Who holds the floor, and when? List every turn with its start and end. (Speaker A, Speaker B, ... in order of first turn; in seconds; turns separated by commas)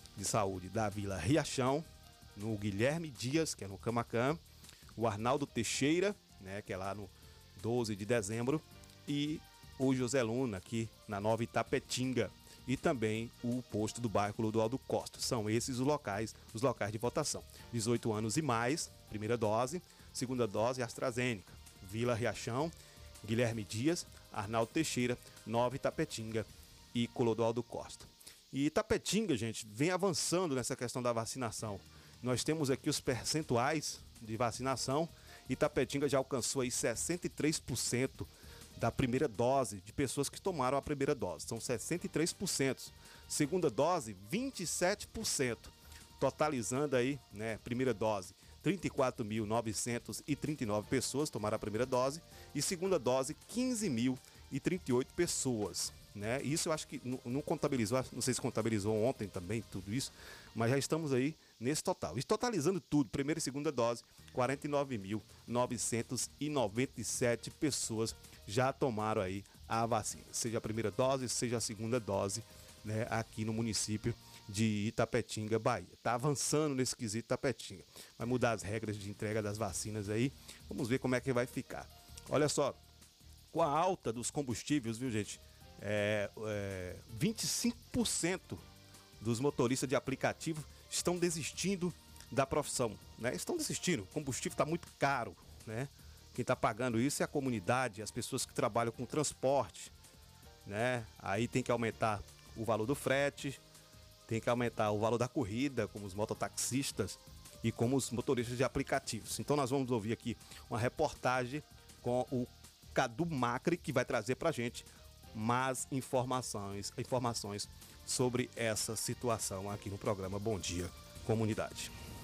Speaker A: 0.1-1.8, Speaker A: 2.4-4.4, Speaker A: 5.0-82.8, Speaker A: 83.5-88.6, Speaker A: 89.2-99.9, Speaker A: 100.7-103.6, Speaker A: 104.3-121.9